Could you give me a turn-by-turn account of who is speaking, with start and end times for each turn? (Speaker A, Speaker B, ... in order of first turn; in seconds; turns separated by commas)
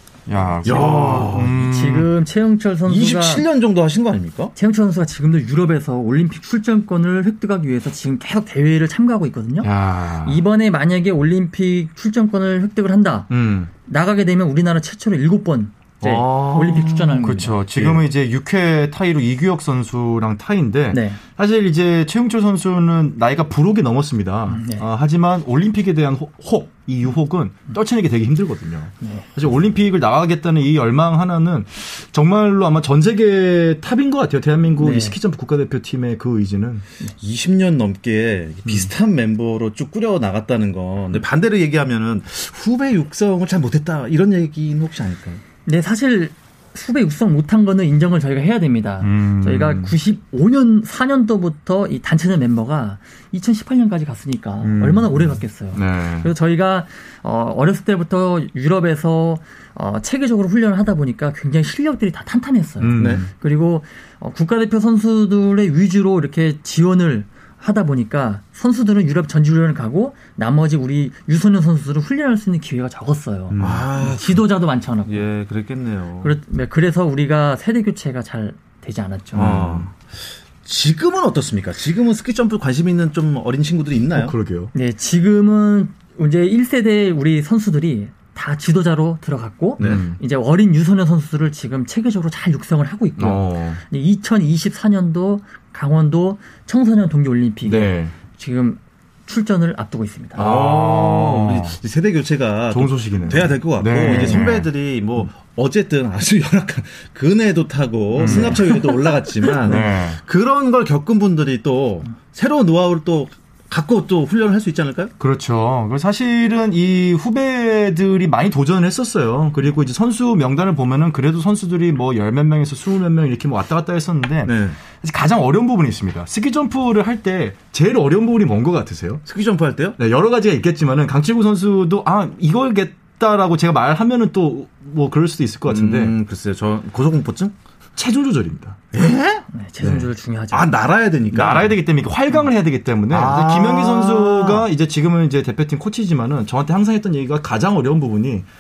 Speaker A: 0.3-2.1, Speaker B: 0.6-1.5, Speaker C: 1.4-3.4, Speaker B: 2.9-4.5, Speaker C: 4.6-17.6, Speaker A: 9.6-10.4, Speaker A: 13.3-13.7, Speaker B: 16.0-17.2, Speaker A: 16.1-36.8, Speaker B: 17.8-18.0, Speaker C: 20.9-21.2, Speaker C: 24.5-24.9, Speaker C: 29.0-29.3, Speaker C: 34.8-35.2, Speaker B: 37.2-45.4, Speaker C: 45.7-75.3, Speaker A: 49.0-49.9, Speaker A: 54.6-56.3, Speaker A: 62.8-63.3, Speaker B: 63.0-63.2, Speaker A: 73.5-73.9, Speaker B: 73.6-74.4, Speaker B: 75.1-76.3, Speaker C: 76.2-79.6, Speaker B: 79.3-84.3, Speaker A: 79.3-79.9, Speaker A: 84.1-84.7, Speaker C: 84.7-100.5, Speaker A: 89.8-90.2, Speaker A: 93.2-93.8, Speaker A: 97.7-98.2, Speaker A: 100.4-101.8, Speaker B: 100.4-115.1, Speaker A: 102.7-104.7, Speaker C: 104.0-104.5, Speaker A: 108.2-108.7, Speaker C: 108.2-108.8, Speaker A: 109.6-110.2, Speaker A: 115.2-129.2, Speaker B: 124.5-124.8, Speaker B: 129.3-130.0, Speaker A: 130.0-136.1, Speaker B: 135.7-137.5, Speaker A: 138.0-138.8, Speaker B: 138.9-140.0, Speaker C: 139.5-140.7, Speaker B: 140.5-141.8, Speaker A: 141.3-148.5, Speaker B: 143.1-144.7